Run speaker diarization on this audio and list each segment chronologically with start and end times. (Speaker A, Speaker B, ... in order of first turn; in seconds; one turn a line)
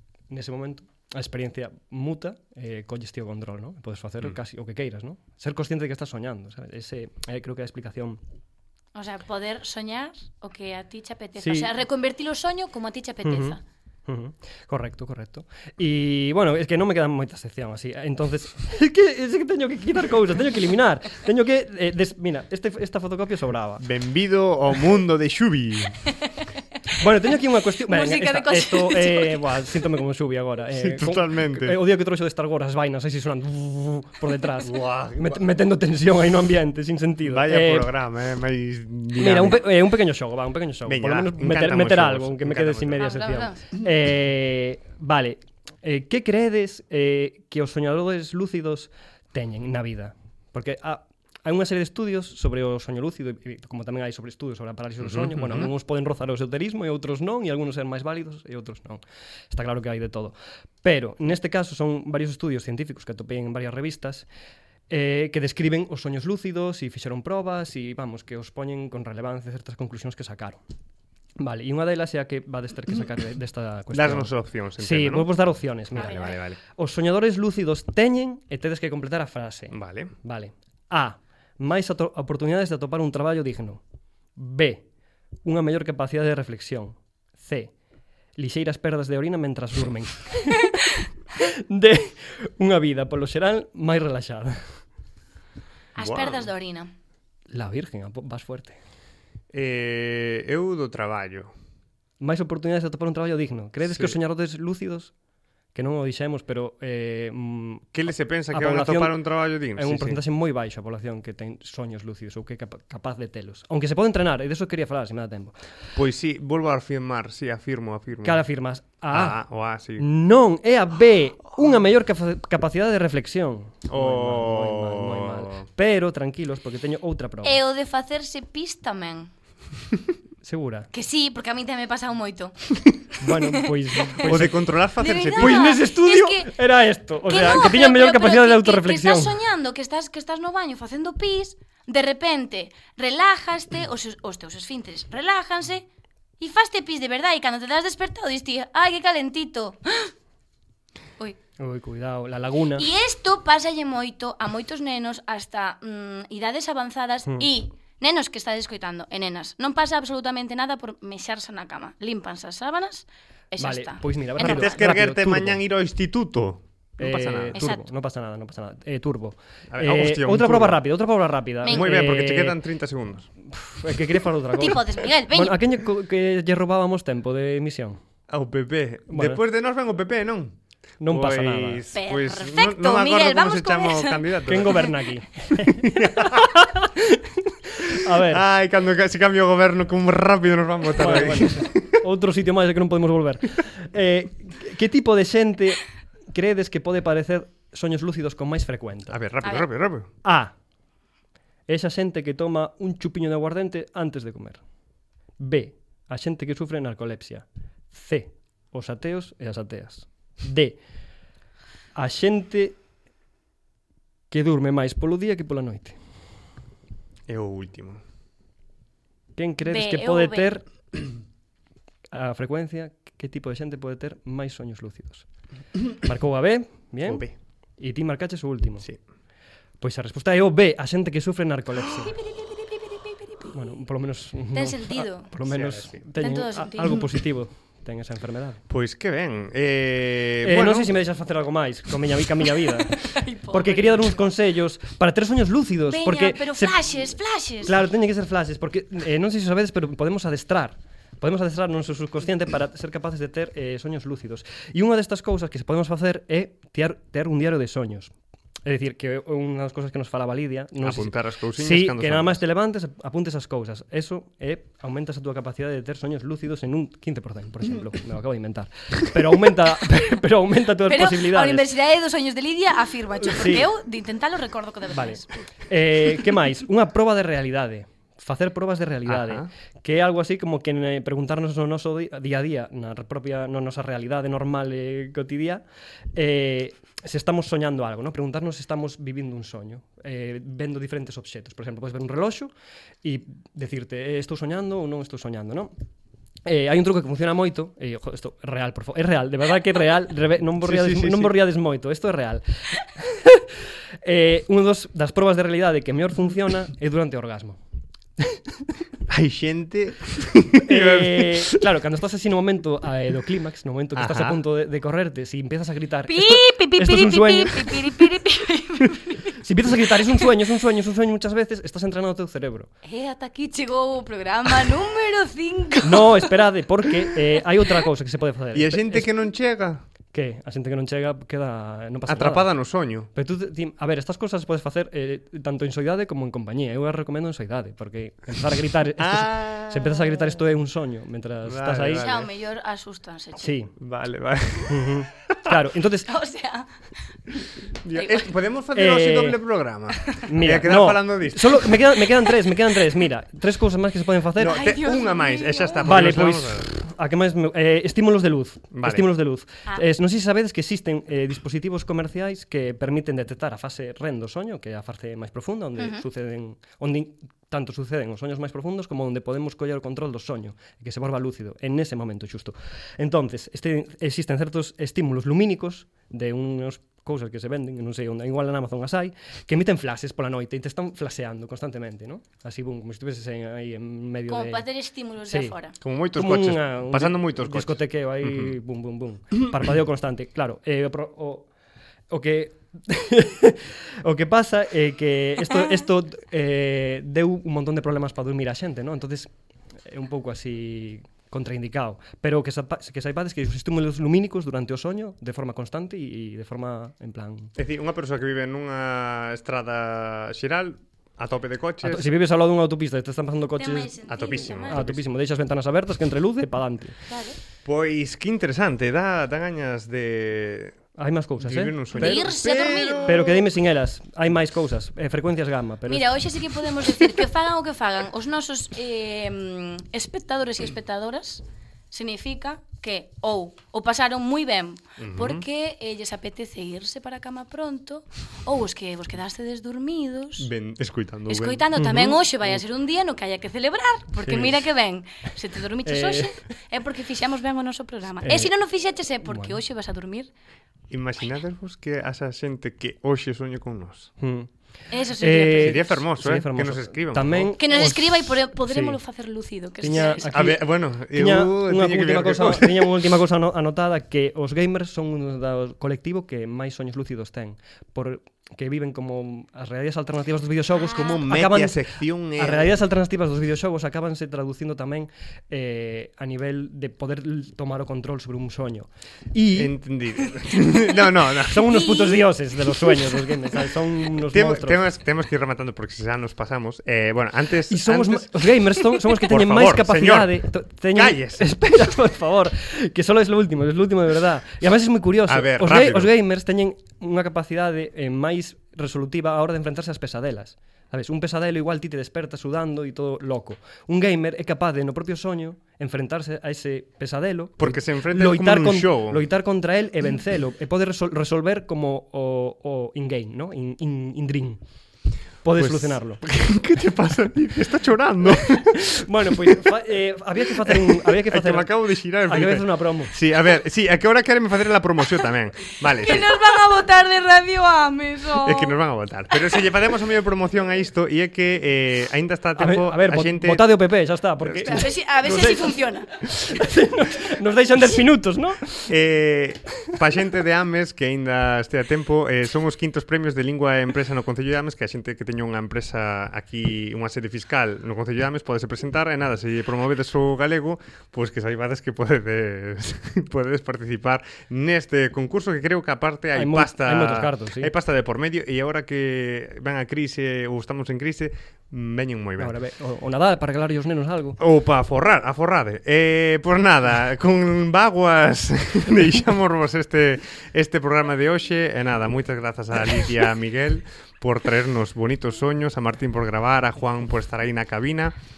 Speaker A: 0.3-8.2
Speaker B: 8.9-13.6
Speaker A: 11.4-11.7
Speaker A: 13.2-23.8
Speaker C: 23.8-26.0
Speaker A: 27.0-37.9
Speaker B: 27.9-29.5
Speaker C: 30.7-31.8
Speaker C: 34.6-35.4
Speaker C: 37.2-39.6
Speaker A: 39.1-64.2
Speaker C: 40.9-43.1
Speaker B: 43.0-43.6
Speaker C: 55.0-55.7
Speaker A: 64.9-70.6
Speaker A: 71.4-76.2
Speaker C: 73.9-75.3
Speaker C: 75.9-76.6
Speaker B: 76.0-76.4
Speaker A: 76.8-83.8
Speaker C: 79.7-80.1
Speaker A: 84.4-84.8
Speaker A: 85.4-87.7
Speaker A: 88.4-90.8
Speaker A: 91.3-94.7
Speaker B: 96.0-96.9
Speaker C: 96.0-96.5
Speaker A: 97.5-98.8
Speaker C: 99.5-101.5
Speaker A: 102.2-105.1
Speaker C: 103.9-104.2
Speaker A: 105.7-107.9
Speaker C: 107.9-110.2
Speaker A: 108.5-115.5
Speaker C: 115.9-118.4
Speaker A: 118.2-119.4
Speaker C: 119.1-120.1
Speaker A: 120.0-127.6
Speaker C: 123.9-125.7
Speaker B: 127.4-129.3
Speaker A: 130.4-130.9
Speaker B: 130.9-134.3
Speaker A: 133.2-134.6
Speaker C: 134.2-135.8
Speaker B: 135.0-136.5
Speaker A: 135.4-139.4
Speaker B: 137.3-145.8
Speaker B: 146.4-150.1
Speaker A: 151.6-152.9
Speaker B: 152.7-164.7
Speaker A: 163.6-165.6
Speaker C: 164.4-167.6
Speaker A: 167.0-172.6
Speaker B: 167.5-167.9
Speaker C: 169.7-170.8
Speaker B: 171.6-172.0
Speaker C: 171.7-173.3
Speaker A: 173.4-178.0
Speaker B: 174.6-175.6
Speaker C: 178.3-184.9
Speaker A: 179.1-179.4
Speaker A: 181.0-181.8
Speaker B: 181.9-184.9
Speaker A: 184.5-188.4
Speaker C: 185.5-186.6
Speaker C: 188.1-191.9
Speaker A: 190.9-199.2
Speaker C: 199.1-200.1
Speaker A: 200.2-200.5
Speaker A: 201.7-204.6
Speaker A: 205.4-210.8
Speaker A: 211.9-212.8
Speaker A: 214.3-216.0
Speaker C: 217.3-218.0
Speaker A: 219.3-220.6
Speaker B: 219.6-220.6
Speaker A: 222.1-225.3
Speaker A: 225.9-228.9
Speaker C: 227.1-227.3
Speaker A: 229.8-232.2
Speaker B: 231.9-233.5
Speaker A: 233.5-238.6
Speaker B: 234.5-235.3
Speaker C: 235.4-236.0
Speaker B: 236.2-237.1
Speaker C: 238.7-240.9
Speaker A: 240.4-247.0
Speaker B: 242.9-244.1
Speaker B: 245.9-247.7
Speaker A: 247.6-258.1
Speaker A: 258.6-271.7
Speaker C: 260.8-262.4
Speaker B: 270.9-275.4
Speaker A: 273.2-273.7
Speaker A: 274.9-285.6
Speaker C: 279.1-279.5
Speaker A: 286.1-292.5
Speaker A: 293.0-295.7
Speaker A: 296.4-307.6
Speaker C: 300.6-301.4
Speaker C: 309.1-311.6
Speaker A: 310.6-318.0
Speaker C: 313.9-314.4
Speaker B: 316.1-319.3
Speaker A: 318.9-322.7
Speaker B: 319.9-320.2
Speaker B: 322.8-326.4
Speaker A: 325.8-329.1
Speaker C: 328.5-329.9
Speaker A: 330.1-332.5
Speaker C: 332.1-333.1
Speaker A: 333.1-342.1
Speaker C: 339.0-340.4
Speaker C: 341.4-342.3
Speaker B: 342.0-343.6
Speaker A: 343.4-343.7
Speaker C: 343.8-345.6
Speaker A: 344.7-346.1
Speaker B: 346.1-346.7
Speaker C: 347.8-351.8
Speaker B: 347.9-348.3
Speaker A: 348.7-349.4
Speaker A: 350.2-354.6
Speaker C: 354.4-356.7
Speaker B: 354.4-355.9
Speaker A: 355.8-384.6
Speaker C: 358.7-359.1
Speaker B: 365.8-366.0
Speaker B: 384.3-385.8
Speaker A: 385.3-385.6
Speaker C: 385.8-388.5
Speaker A: 386.1-391.5
Speaker A: 392.1-399.3
Speaker A: 399.8-407.5
Speaker C: 407.6-412.1
Speaker A: 411.8-417.0
Speaker B: 413.6-414.8
Speaker C: 414.1-415.0
Speaker B: 417.1-417.4
Speaker C: 417.6-420.8
Speaker A: 420.9-426.1
Speaker C: 421.4-423.4
Speaker B: 421.9-423.3
Speaker B: 425.9-440.5
Speaker C: 435.0-435.4
Speaker C: 440.4-441.7
Speaker B: 441.3-450.3
Speaker A: 441.7-442.6
Speaker A: 444.2-444.6
Speaker A: 445.8-446.3
Speaker A: 448.2-448.5
Speaker A: 449.2-449.6
Speaker C: 450.9-454.1
Speaker A: 454.2-454.5
Speaker B: 454.9-455.9
Speaker A: 455.2-459.0
Speaker C: 455.5-457.5
Speaker B: 457.6-460.5
Speaker A: 459.8-479.7
Speaker C: 460.0-463.1
Speaker C: 470.9-472.8
Speaker C: 479.5-481.9
Speaker A: 481.4-484.8
Speaker B: 481.7-482.3
Speaker C: 484.1-491.5
Speaker A: 487.7-514.6
Speaker C: 495.2-496.1
Speaker C: 507.6-509.2
Speaker A: 515.4-516.2
Speaker C: 515.5-518.9
Speaker A: 518.7-521.7
Speaker C: 519.4-519.8
Speaker C: 520.6-526.4
Speaker A: 522.2-523.1
Speaker B: 525.8-528.8
Speaker C: 528.4-533.8
Speaker B: 529.3-529.6
Speaker A: 532.6-538.9
Speaker C: 534.4-534.9
Speaker B: 534.6-536.1
Speaker C: 538.9-562.5
Speaker A: 556.3-557.7
Speaker A: 562.4-564.4
Speaker C: 564.4-578.1